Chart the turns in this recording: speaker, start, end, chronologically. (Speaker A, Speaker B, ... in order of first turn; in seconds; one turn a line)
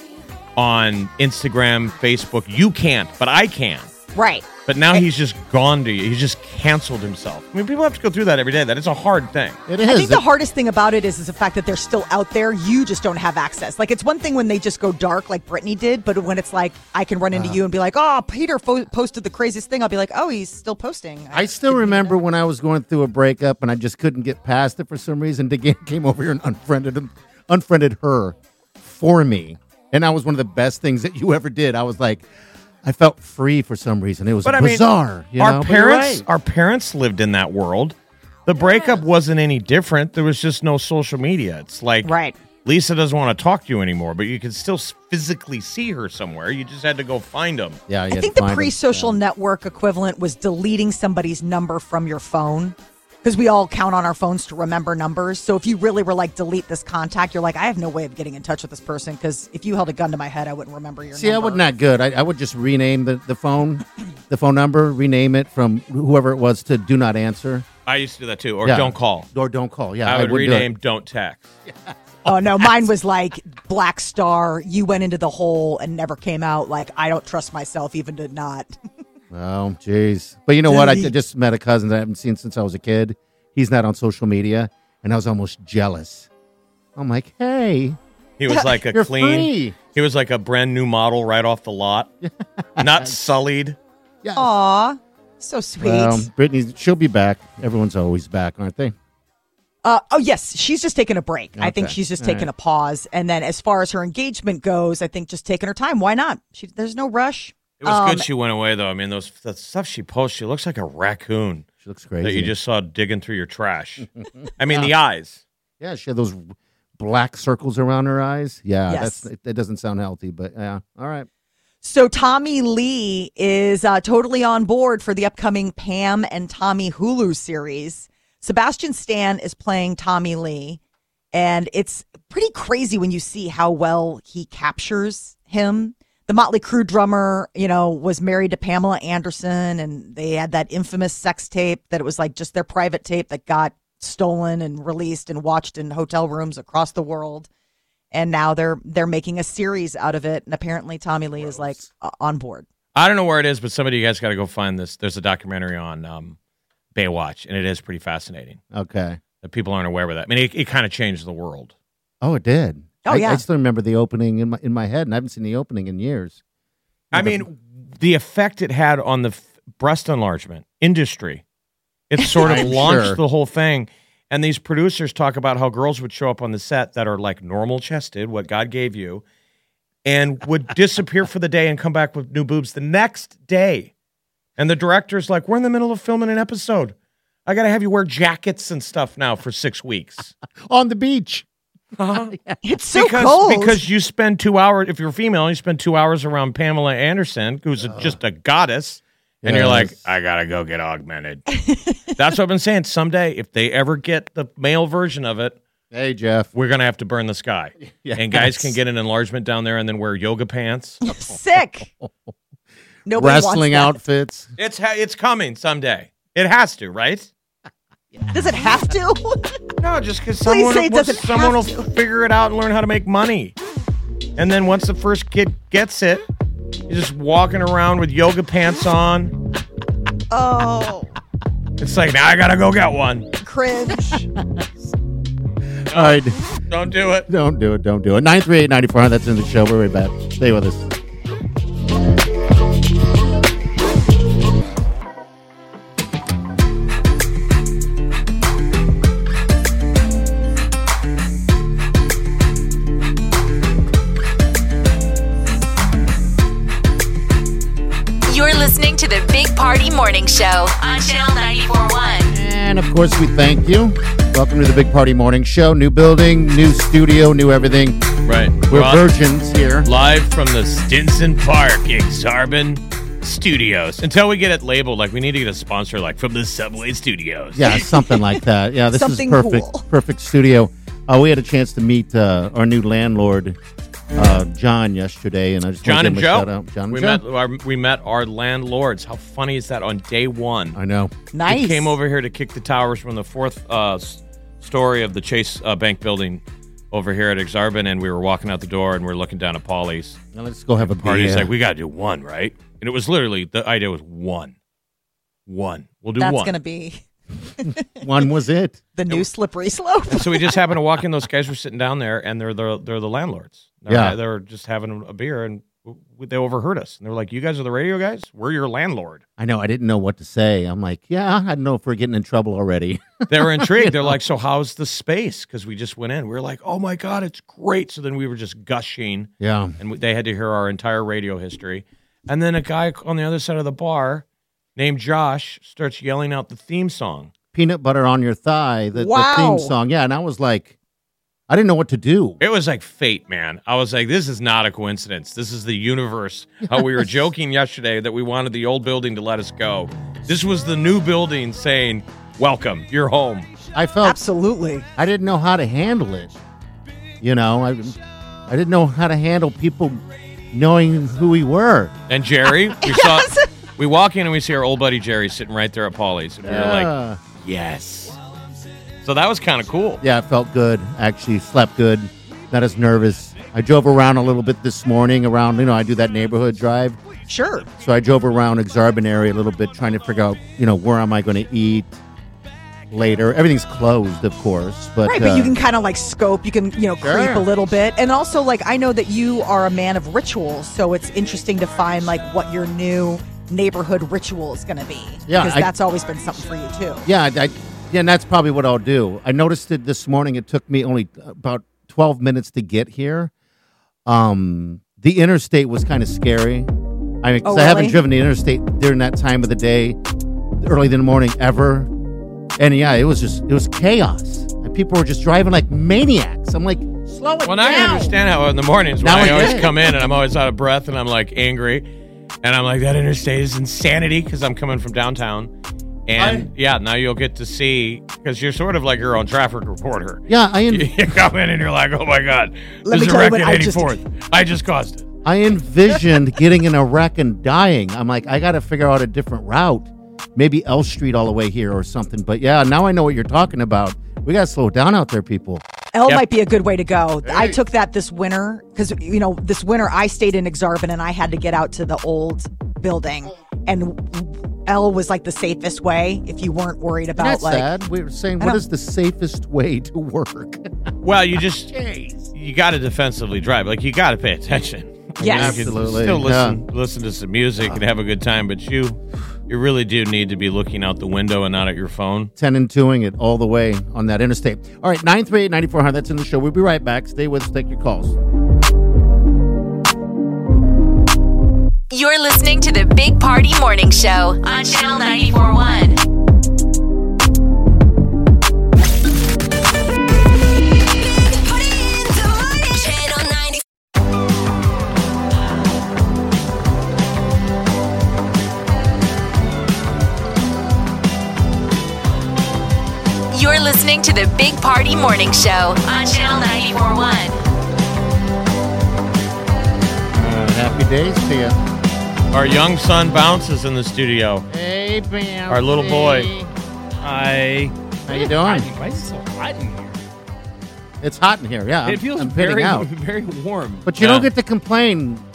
Speaker A: 0.6-3.9
Speaker B: 4.2-5.0
Speaker A: 4.7-9.6
Speaker C: 9.7-10.2
Speaker B: 9.8-22.2
Speaker C: 17.3-17.6
Speaker C: 21.3-32.3
Speaker C: 32.8-36.2
Speaker A: 34.5-34.9
Speaker A: 35.4-42.1
Speaker B: 38.6-38.9
Speaker B: 42.0-42.4
Speaker A: 42.6-47.8
Speaker C: 47.9-49.2
Speaker B: 48.1-61.6
Speaker C: 61.1-67.7
Speaker A: 67.9-69.3
Speaker C: 68.7-70.7
Speaker A: 70.0-71.5
Speaker C: 71.7-72.5
Speaker B: 72.2-78.7
Speaker C: 79.3-86.3
Speaker B: 80.7-81.1
Speaker C: 87.0-88.0
Speaker A: 88.4-92.1
Speaker C: 88.9-89.8
Speaker C: 92.2-93.2
Speaker A: 92.8-93.8
Speaker C: 94.2-94.5
Speaker B: 94.4-96.3
Speaker C: 95.8-99.0
Speaker B: 99.8-108.3
Speaker C: 101.6-102.5
Speaker A: 107.8-111.7
Speaker C: 111.8-112.5
Speaker A: 112.2-115.4
Speaker C: 115.8-121.3
Speaker B: 118.9-119.3
Speaker B: 121.8-130.8
Speaker B: 131.3-147.5
Speaker B: 148.1-152.7
Speaker C: 151.4-151.9
Speaker A: 152.9-156.4
Speaker A: 156.9-158.6
Speaker C: 158.7-159.2
Speaker A: 159.4-161.7
Speaker C: 162.2-166.4
Speaker B: 163.1-163.4
Speaker C: 167.1-167.4
Speaker A: 167.1-171.4
Speaker A: 172.1-179.2
Speaker C: 172.4-173.2
Speaker A: 180.1-183.9
Speaker A: 184.6-186.9
Speaker A: 187.5-190.3
Speaker C: 190.7-191.5
Speaker A: 192.0-192.3
Speaker C: 192.1-192.6
Speaker B: 192.6-193.8
Speaker A: 192.9-201.5
Speaker C: 197.9-198.2
Speaker C: 199.4-200.1
Speaker B: 201.6-202.0
Speaker A: 202.2-205.6
Speaker C: 205.9-206.5
Speaker A: 206.5-211.0
Speaker C: 207.9-208.8
Speaker B: 211.0-211.9
Speaker B: 213.1-214.0
Speaker C: 213.1-214.5
Speaker A: 214.6-217.3
Speaker B: 218.3-219.6
Speaker A: 219.8-223.6
Speaker B: 220.4-221.8
Speaker A: 224.4-226.2
Speaker A: 226.9-229.3
Speaker B: 230.3-231.2
Speaker A: 231.8-233.3
Speaker B: 233.4-234.3
Speaker A: 235.9-237.3
Speaker C: 235.9-236.4
Speaker C: 237.2-240.9
Speaker D: 258.3-262.3
Speaker C: 262.3-268.0
Speaker A: 268.2-269.1
Speaker C: 268.7-269.9
Speaker A: 269.8-277.8
Speaker C: 277.5-283.6
Speaker B: 277.8-279.8
Speaker C: 284.1-287.2
Speaker A: 285.8-290.8
Speaker C: 290.7-291.1
Speaker B: 291.3-291.9
Speaker A: 291.4-300.2
Speaker C: 300.3-301.5
Speaker A: 300.8-304.6
Speaker A: 305.5-306.5
Speaker B: 306.2-307.0
Speaker B: 307.6-308.0
Speaker C: 308.0-308.8
Speaker B: 308.9-310.5
Speaker A: 310.1-319.2
Speaker C: 313.9-314.2
Speaker C: 319.4-324.2
Speaker A: 323.3-334.2
Speaker C: 329.4-329.8
Speaker A: 334.8-337.3
Speaker C: 337.5-340.7
Speaker B: 338.9-339.7
Speaker C: 341.5-342.4
Speaker A: 342.4-353.5
Speaker C: 346.7-347.1
Speaker C: 353.8-354.2
Speaker B: 354.0-354.9
Speaker C: 355.0-356.4
Speaker C: 357.2-361.9
Speaker A: 362.1-366.9
Speaker B: 362.5-363.5
Speaker C: 366.4-367.2
Speaker A: 367.4-368.2
Speaker A: 369.0-370.0
Speaker C: 370.0-377.0
Speaker B: 377.3-377.7
Speaker C: 377.6-382.0
Speaker C: 382.9-385.5
Speaker B: 385.0-397.1
Speaker C: 387.0-387.5
Speaker C: 395.3-395.7
Speaker C: 397.1-403.3
Speaker C: 404.1-406.7
Speaker C: 407.2-410.0
Speaker B: 407.4-408.0
Speaker C: 410.6-411.9
Speaker C: 412.6-418.2
Speaker A: 417.4-421.9
Speaker C: 419.0-419.9
Speaker A: 422.4-425.5
Speaker A: 426.1-435.0
Speaker C: 426.2-426.5
Speaker C: 430.3-431.1
Speaker B: 432.9-434.0
Speaker C: 435.2-445.6
Speaker B: 445.9-457.7
Speaker C: 447.2-447.6
Speaker C: 457.2-460.9
Speaker A: 461.0-461.7
Speaker C: 461.7-462.3
Speaker A: 462.3-472.3
Speaker C: 465.2-466.6
Speaker B: 465.2-465.6
Speaker C: 472.4-478.2
Speaker D: 481.9-486.0
Speaker D: 492.6-493.6
Speaker D: 503.3-507.4
Speaker C: 510.1-511.6
Speaker A: 512.3-514.5
Speaker C: 514.5-516.5
Speaker A: 515.5-516.3
Speaker E: 517.0-520.0
Speaker C: 518.1-518.7
Speaker C: 521.0-522.9
Speaker E: 521.9-523.9
Speaker C: 523.9-525.2
Speaker A: 524.0-524.3